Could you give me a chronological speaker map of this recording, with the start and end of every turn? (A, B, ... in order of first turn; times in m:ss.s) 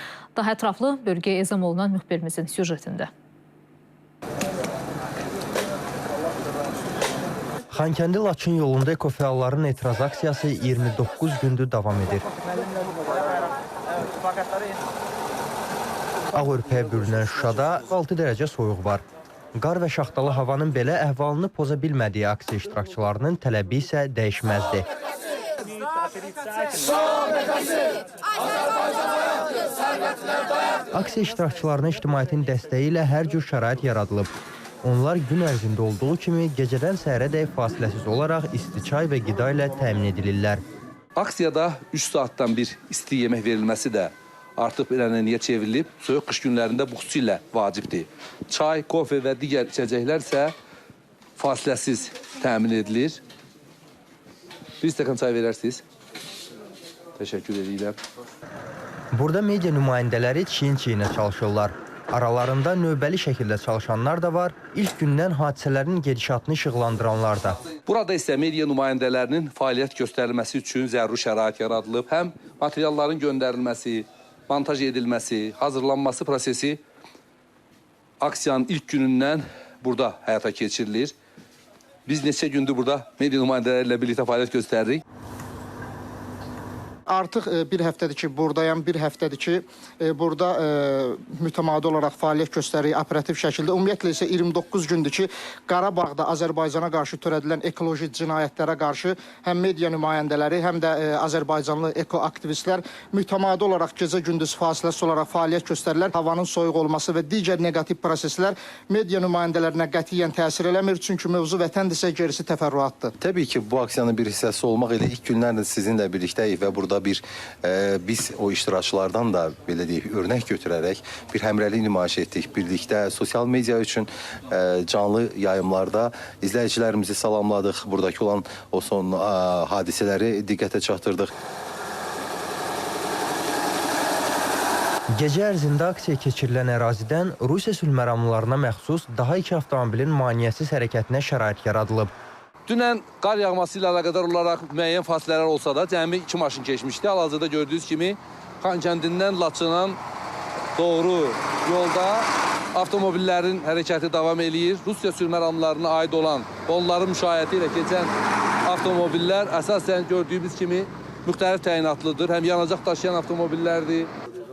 0:00.3-0:03.1 A
0:07.7-0:12.3 B
0:16.3-0:19.0 B
0:19.6-0:24.8 B
0:30.9-0:34.3 B
0:34.8-0:40.6 B
0:41.2-0:50.5 C
0:51.4-0:53.2 C
0:54.8-0:55.8 C
0:57.2-0:58.0 C
0:59.1-1:07.6 B
1:07.8-1:16.8 C
1:18.2-1:21.1 C
1:22.0-1:25.0 C
1:27.1-1:53.1 D
1:53.2-2:11.3 E
2:15.1-2:22.1 B
2:22.7-2:30.0 C
2:30.8-2:38.1 C
2:38.6-2:44.1 C